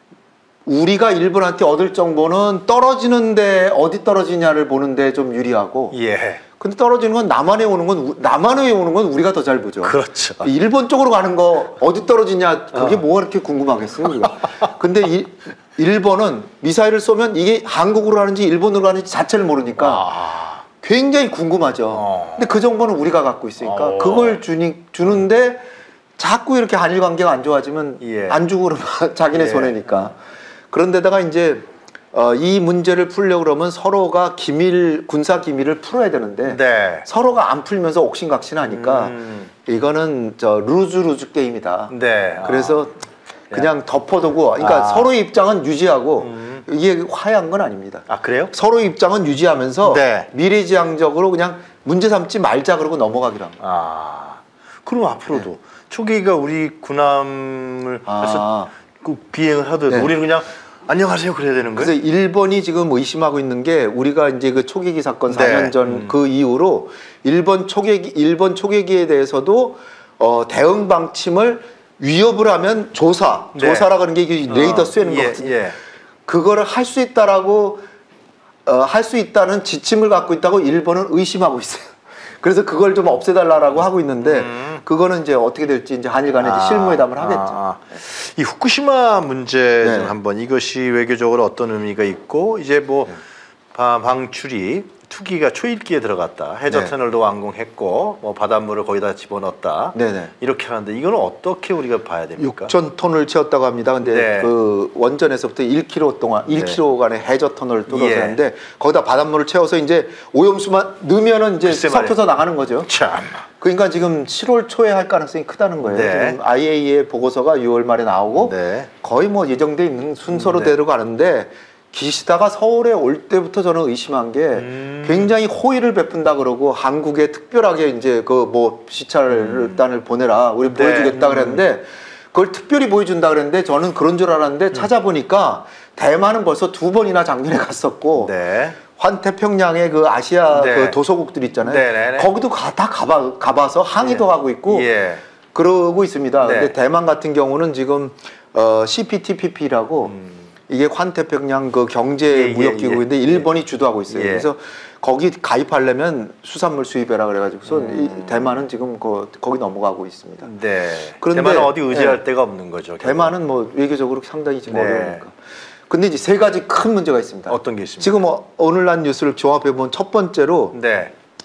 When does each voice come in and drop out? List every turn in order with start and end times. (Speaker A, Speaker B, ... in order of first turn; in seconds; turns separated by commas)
Speaker A: 0.7-5.9, Speaker B: 5.9-6.4, Speaker A: 6.6-20.1, Speaker B: 9.8-10.5, Speaker B: 19.8-20.6, Speaker A: 20.8-25.6, Speaker B: 21.9-22.5, Speaker B: 23.6-24.4, Speaker A: 26.2-30.2, Speaker B: 28.0-28.4, Speaker B: 29.3-30.1, Speaker A: 30.7-42.9, Speaker B: 36.5-37.1, Speaker B: 38.6-39.5, Speaker B: 41.9-42.8, Speaker A: 43.5-53.6, Speaker B: 44.6-45.1, Speaker B: 46.2-46.6, Speaker B: 48.1-48.5, Speaker B: 49.8-50.3, Speaker B: 53.6-61.9, Speaker A: 58.0-58.7, Speaker A: 61.8-75.6, Speaker B: 65.3-66.1, Speaker B: 73.5-73.9, Speaker B: 74.5-75.8, Speaker A: 76.2-77.8, Speaker A: 78.6-87.6, Speaker B: 84.2-84.8, Speaker B: 86.4-93.2, Speaker A: 89.8-90.1, Speaker B: 93.7-102.7, Speaker A: 96.7-96.9, Speaker A: 99.9-100.3, Speaker A: 102.4-112.9, Speaker B: 104.0-104.5, Speaker B: 106.5-106.8, Speaker B: 107.9-108.4, Speaker B: 111.7-112.2, Speaker B: 112.8-113.4, Speaker A: 113.6-138.3, Speaker B: 115.8-116.4, Speaker B: 118.4-118.9, Speaker B: 120.3-120.7, Speaker B: 124.5-125.3, Speaker B: 129.3-129.8, Speaker B: 130.7-131.6, Speaker B: 138.2-138.8, Speaker A: 138.9-144.9, Speaker B: 140.5-141.0, Speaker B: 141.6-142.3, Speaker B: 144.0-145.2, Speaker A: 145.5-150.1, Speaker B: 146.4-146.7, Speaker B: 150.1-150.4, Speaker A: 150.7-160.5, Speaker B: 152.3-153.5, Speaker B: 154.1-154.5, Speaker B: 157.7-158.6, Speaker B: 160.4-163.3, Speaker A: 161.2-162.2, Speaker A: 163.0-165.3, Speaker B: 164.7-165.2, Speaker A: 165.9-170.7, Speaker B: 167.5-168.2, Speaker B: 170.7-171.1